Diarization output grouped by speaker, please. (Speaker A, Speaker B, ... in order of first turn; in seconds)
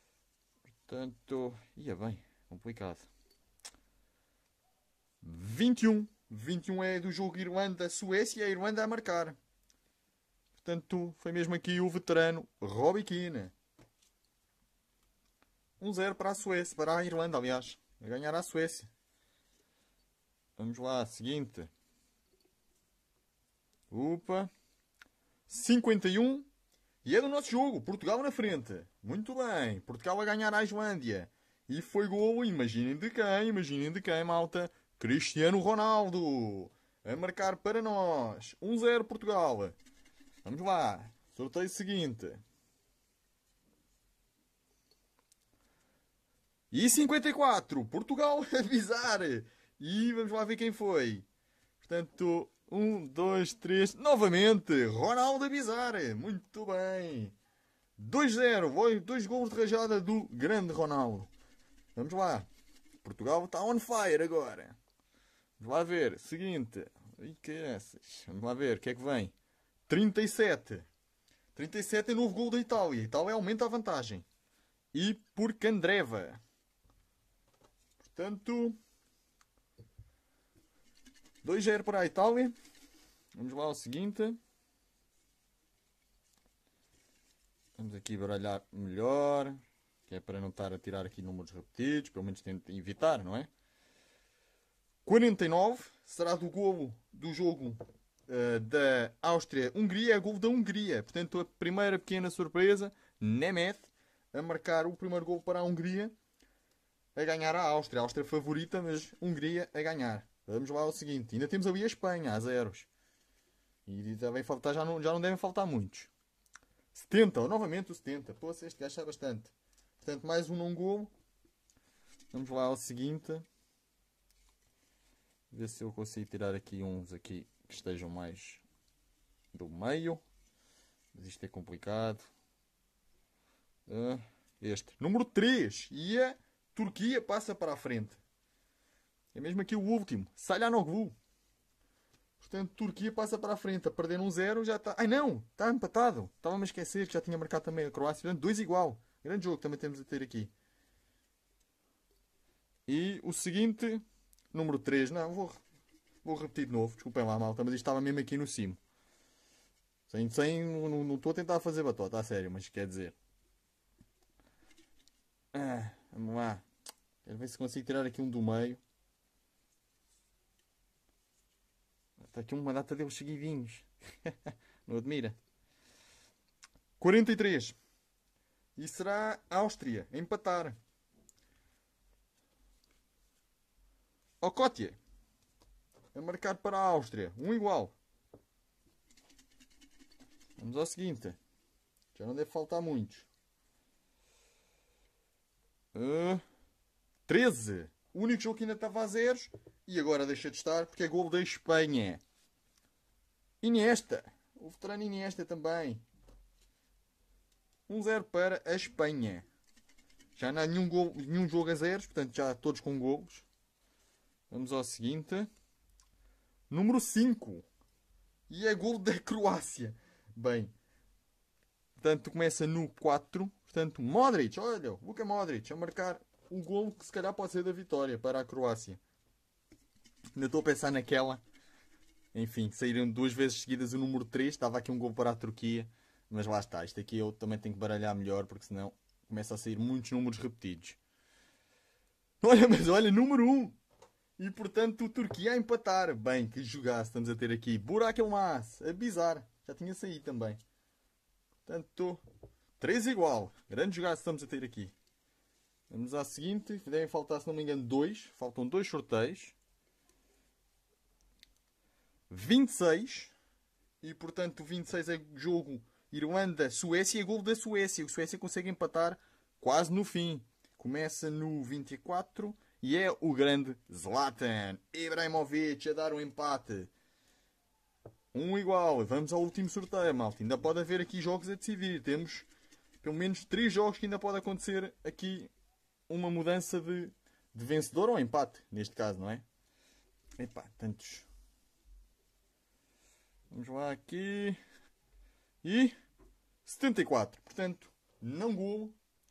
Speaker A: 0.9-3.1, 5.2-9.4, 10.6-13.5, 15.8-18.9, 20.6-21.7, 23.9-24.5, 25.5-26.5, 27.0-39.8, 40.4-42.4, 46.7-51.3, 51.8-57.4, 58.0-61.3, 62.0-62.5, 63.0-64.8, 65.6-69.3, 69.9-70.9, 71.5-74.3, 74.9-76.4, 78.0-78.8, 81.4-82.5, 83.3-84.4, 87.8-93.5, 95.0-106.1, 107.2-112.9, 113.9-116.1, 116.9-121.1, 122.3-123.5, 125.5-128.6, 129.5-130.2, 131.1-132.3, 133.9-138.2, 139.3-141.2, 142.4-150.5, 152.9-155.6, 156.2-158.8, 160.1-163.2, 165.5-166.6, 167.2-168.8, 172.2-175.4, 177.0-177.8, 178.8-180.8, 184.4-185.0, 186.1-187.9, 190.6-191.4, 192.2-193.3, 195.9-196.4, 197.3-202.2, 203.6-206.0, 207.9-209.5, 210.4-213.5, 214.5-215.5, 216.7-217.7, 218.5-220.7, 222.0-229.0, 230.3-231.4, 232.3-241.0, 242.4-243.8, 244.4-250.6, 251.7-252.2, 252.8-254.9, 255.9-259.6, 262.3-263.3, 264.0-276.9, 278.3-282.5, 283.0-285.5, 286.1-289.4, 290.4-291.3, 293.5-294.6, 295.6-296.0, 296.6-299.0